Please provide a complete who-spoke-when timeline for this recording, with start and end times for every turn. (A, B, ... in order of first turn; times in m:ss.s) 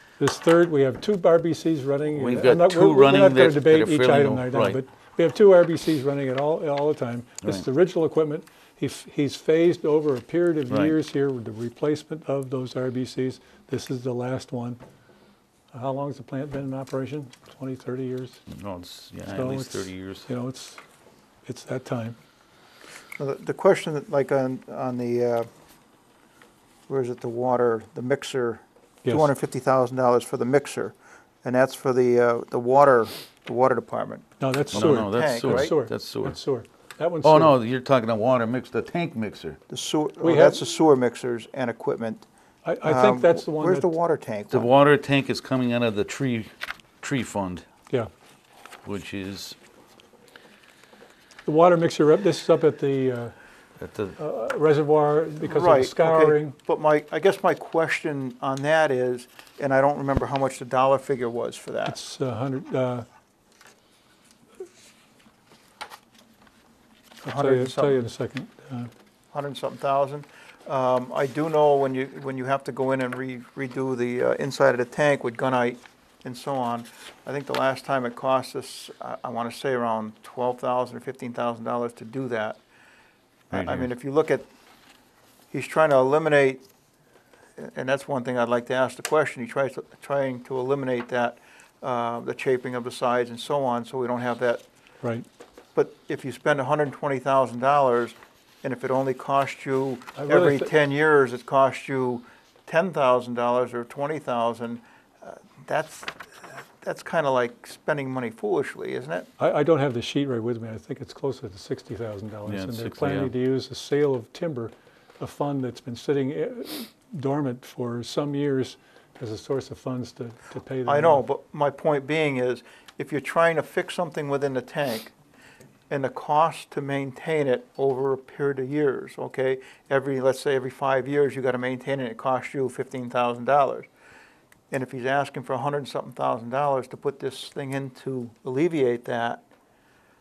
0:00.2-0:14.8 A
0:02.1-0:04.8 B
0:10.7-0:11.0 B
0:15.7-0:18.4 A
0:18.5-0:20.3 B
0:19.3-0:20.8 A
0:21.5-0:22.2 A
0:23.2-0:25.5 C
0:26.9-0:34.3 C
0:29.0-0:29.3 A
0:34.4-0:37.6 A
0:34.7-0:36.4 B
0:34.9-0:35.8 C
0:37.2-0:39.6 B
0:39.7-0:42.3 C
0:40.2-0:40.6 A
0:42.6-0:43.9 A
0:42.8-0:44.7 C
0:44.5-0:47.6 B
0:48.8-0:49.6 B
0:51.4-0:53.3 A
0:53.8-0:54.2 B
0:54.2-0:56.6 A
0:55.4-1:02.0 C
1:01.9-1:03.1 A
1:07.2-1:08.9 A
1:07.2-1:08.0 C
1:09.3-1:22.6 C
1:23.5-1:23.9 B
1:23.5-1:24.5 C
1:25.5-1:26.6 C
1:27.6-1:34.6 C
1:35.8-1:46.3 C
1:40.2-1:40.7 A
1:46.8-1:49.3 C
1:49.4-2:01.2 A
1:52.4-1:53.3 B
2:00.9-2:05.1 C
2:05.9-2:13.9 C
2:14.7-2:19.4 C